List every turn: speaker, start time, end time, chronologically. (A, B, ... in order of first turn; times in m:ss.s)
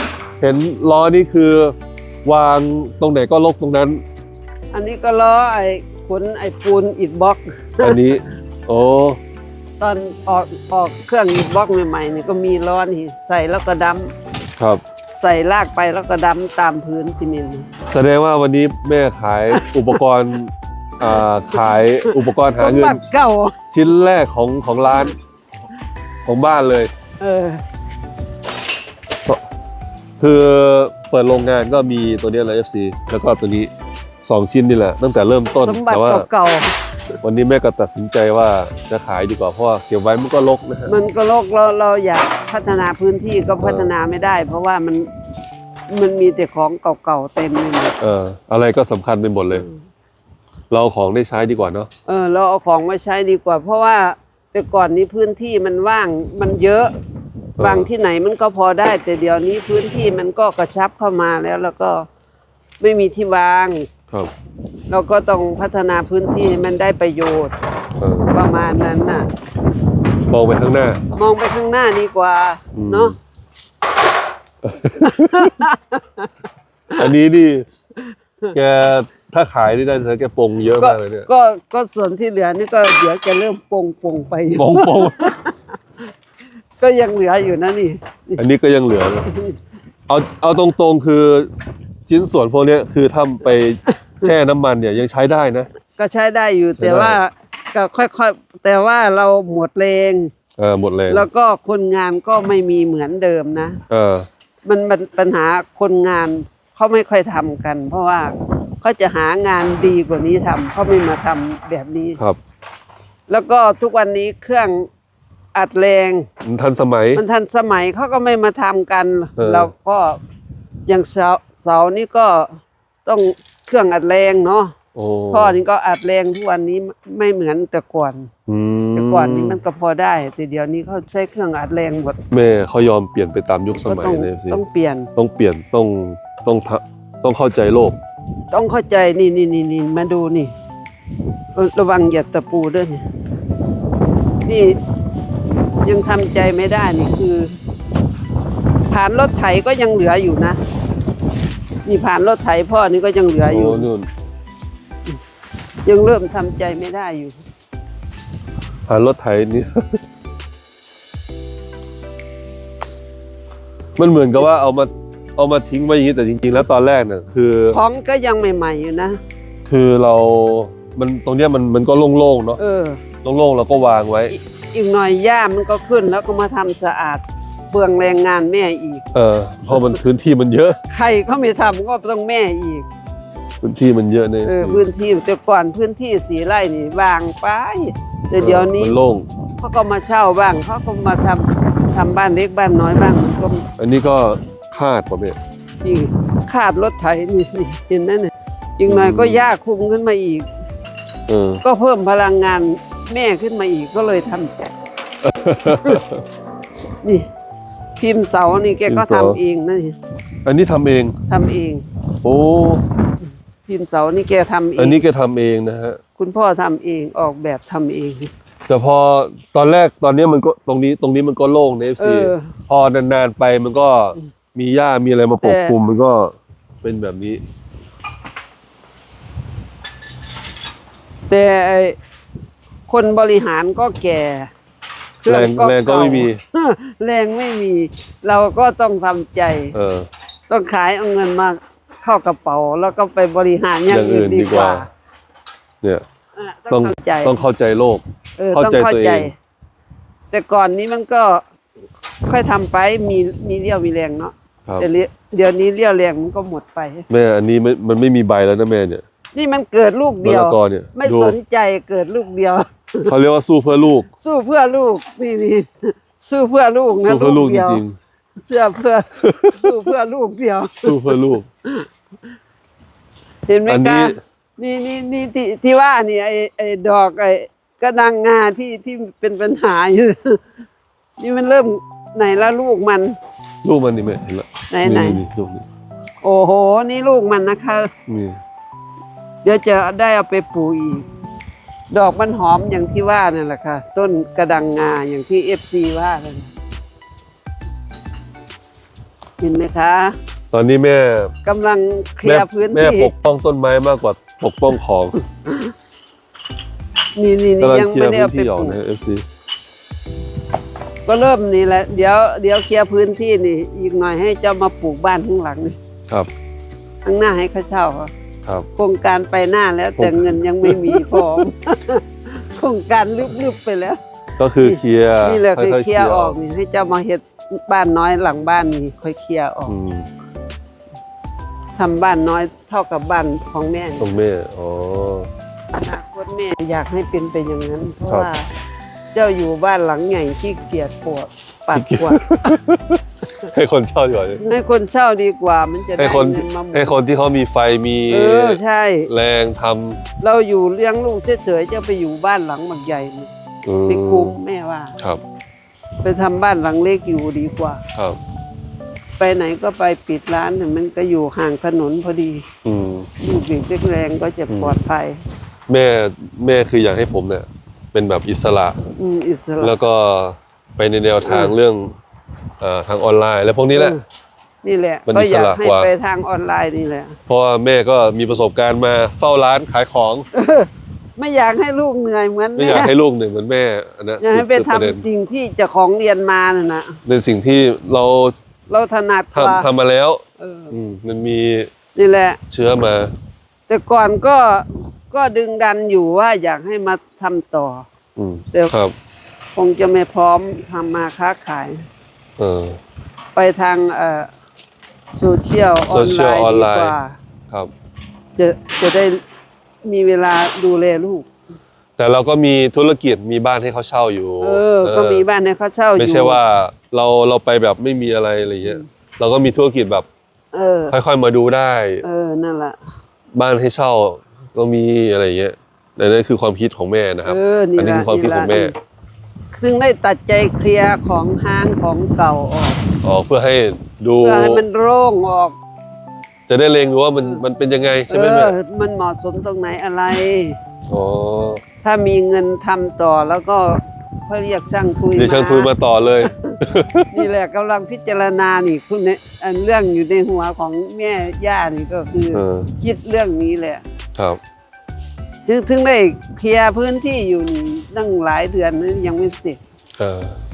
0:00.4-0:04.0 A
0:04.7-0:08.1 B
0:07.8-0:09.2 A
0:09.8-0:14.1 B
0:15.2-0:17.7 B
0:17.9-0:23.0 A
0:21.0-0:23.5 B
0:23.7-0:25.2 A
0:26.2-0:26.9 A
0:27.2-0:27.6 B
0:30.2-0:33.7 A
0:34.2-0:36.3 A
0:35.6-0:36.7 B
0:37.2-0:40.9 A
0:40.9-0:45.1 B
0:43.6-0:43.9 A
0:45.9-0:47.9 B
0:48.0-0:49.6 A
0:49.5-0:49.8 B
0:50.7-0:51.9 A
0:52.0-0:56.9 B
0:57.6-0:57.9 A
0:57.6-1:02.0 B
1:02.8-1:03.9 B
1:04.9-1:07.5 B
1:08.0-1:08.3 A
1:08.3-1:09.3 B
1:10.3-1:11.0 A
1:11.1-1:13.1 B
1:12.7-1:13.2 A
1:14.6-1:15.5 A
1:15.0-1:16.3 B
1:17.0-1:17.7 A
1:18.5-1:21.3 A
1:20.8-1:25.5 B
1:24.6-1:25.3 A
1:26.8-1:28.4 B
1:28.4-1:29.3 A
1:29.3-1:29.6 B
1:30.1-1:31.5 A
1:32.1-1:35.7 A
1:36.0-1:40.3 B
1:36.8-1:37.2 A
1:40.6-1:41.3 A
1:41.1-1:43.8 B
1:43.9-1:44.3 A
1:44.6-1:52.2 B
1:53.3-1:54.9 B
1:55.5-1:56.3 B
1:56.4-1:57.2 A
1:57.1-2:00.2 B
1:59.4-1:59.7 A
2:00.9-2:04.7 B
2:04.9-2:05.6 A
2:05.3-2:08.3 B
2:08.5-2:09.6 A
2:08.9-2:12.2 B
2:12.3-2:14.6 A
2:13.8-2:15.1 B
2:15.2-2:18.0 A
2:18.5-2:20.5 B
2:21.5-2:23.0 B
2:24.4-2:24.8 B
2:25.8-2:27.5 B
2:28.9-2:30.6 B
2:31.8-2:33.9 B
2:33.5-2:34.1 A
2:35.8-2:37.4 B
2:38.9-2:40.0 A
2:44.0-2:47.8 A
2:47.7-2:49.2 B
2:49.6-2:52.6 A
2:52.6-2:53.0 B
2:53.2-2:54.3 A
2:54.3-2:59.0 B
2:59.1-3:00.8 A
3:00.9-3:02.8 B
3:03.6-3:04.8 A
3:04.4-3:09.0 B
3:08.4-3:09.3 A
3:09.6-3:13.6 B
3:13.8-3:15.4 A
3:15.8-3:20.4 B
3:18.9-3:19.4 A
3:21.3-3:21.6 A
3:21.6-3:24.7 B
3:25.2-3:26.2 A
3:28.0-3:30.0 B
3:28.9-3:29.4 A
3:30.4-3:31.1 A
3:31.3-3:31.8 B
3:32.2-3:32.8 A
3:33.6-3:35.0 B
3:34.8-3:36.0 A
3:36.2-3:38.3 B
3:38.7-3:47.4 A
3:42.0-3:42.5 B
3:45.4-3:45.7 B
3:51.3-3:52.0 B
3:52.9-3:54.5 B
3:55.2-3:59.7 B
3:55.2-3:56.4 A
3:59.7-4:00.1 A
4:00.5-4:04.9 B
4:03.9-4:04.8 A
4:06.3-4:07.4 B
4:06.7-4:09.3 A
4:08.4-4:09.3 B
4:10.3-4:11.4 B
4:12.3-4:17.0 B
4:17.1-4:19.0 A
4:19.3-4:23.1 B
4:20.2-4:21.4 A
4:23.0-4:24.1 A
4:24.2-4:27.8 B
4:27.0-4:28.0 A
4:28.4-4:31.9 B
4:29.2-4:29.7 A
4:30.8-4:31.5 A
4:33.5-4:40.4 B
4:33.7-4:34.2 A
4:41.2-4:43.2 B
4:43.6-4:45.6 A
4:44.7-4:45.2 B
4:46.2-4:47.9 B
4:48.1-4:48.4 A
4:49.4-4:51.0 B
4:51.9-4:56.5 B
4:59.4-5:00.2 B
5:00.5-5:01.3 A
5:01.4-5:03.1 B
5:02.2-5:05.2 A
5:07.2-5:08.8 B
5:07.6-5:09.2 A
5:11.0-5:15.8 B
5:17.0-5:18.1 B
5:18.8-5:24.0 B
5:20.0-5:21.4 A
5:24.4-5:26.3 A
5:24.6-5:29.7 B
5:29.7-5:30.1 A
5:31.8-5:34.0 B
5:34.0-5:35.3 A
5:35.8-5:38.5 B
5:39.1-5:42.6 B
5:41.7-5:44.4 A
5:44.4-5:46.9 B
5:46.0-5:50.0 A
5:48.1-5:49.1 B
5:50.2-5:53.3 B
5:53.6-5:54.4 A
5:53.9-5:54.9 B
5:56.0-5:57.8 B
5:59.2-6:02.4 B
6:02.6-6:03.1 A
6:03.2-6:05.2 B
6:04.5-6:04.8 A
6:05.7-6:08.8 A
6:09.0-6:09.7 B
6:09.6-6:11.9 A
6:11.2-6:11.5 B
6:12.6-6:14.0 A
6:13.7-6:14.0 B
6:14.6-6:17.2 B
6:15.1-6:15.9 A
6:17.3-6:20.2 A
6:20.3-6:22.9 B
6:22.6-6:25.0 A
6:24.2-6:27.0 B
6:27.0-6:28.4 A
6:28.7-6:29.7 B
6:29.3-6:31.7 A
6:30.4-6:30.7 B
6:31.9-6:32.4 B
6:32.5-6:33.1 A
6:33.7-6:37.8 B
6:38.2-6:38.9 A
6:39.6-6:41.8 B
6:42.4-6:42.8 A
6:43.3-6:44.3 B
6:45.2-6:47.2 B
6:45.9-6:47.0 A
6:48.4-6:49.2 B
6:49.8-6:51.3 B
6:52.0-6:55.2 A
6:54.4-6:56.4 B
6:56.0-7:00.1 A
7:00.5-7:00.9 B
7:00.9-7:02.0 A
7:02.0-7:02.8 B
7:03.3-7:08.7 A
7:07.2-7:08.7 B
7:09.5-7:12.8 B
7:13.0-7:14.6 A
7:14.2-7:15.5 B
7:16.5-7:18.5 A
7:18.1-7:20.6 B
7:20.9-7:21.6 A
7:21.8-7:25.7 B
7:25.1-7:27.2 A
7:26.2-7:26.6 B
7:27.1-7:33.8 B
7:32.3-7:32.7 A
7:34.2-7:34.4 A
7:35.4-7:39.6 B
7:40.0-7:40.4 A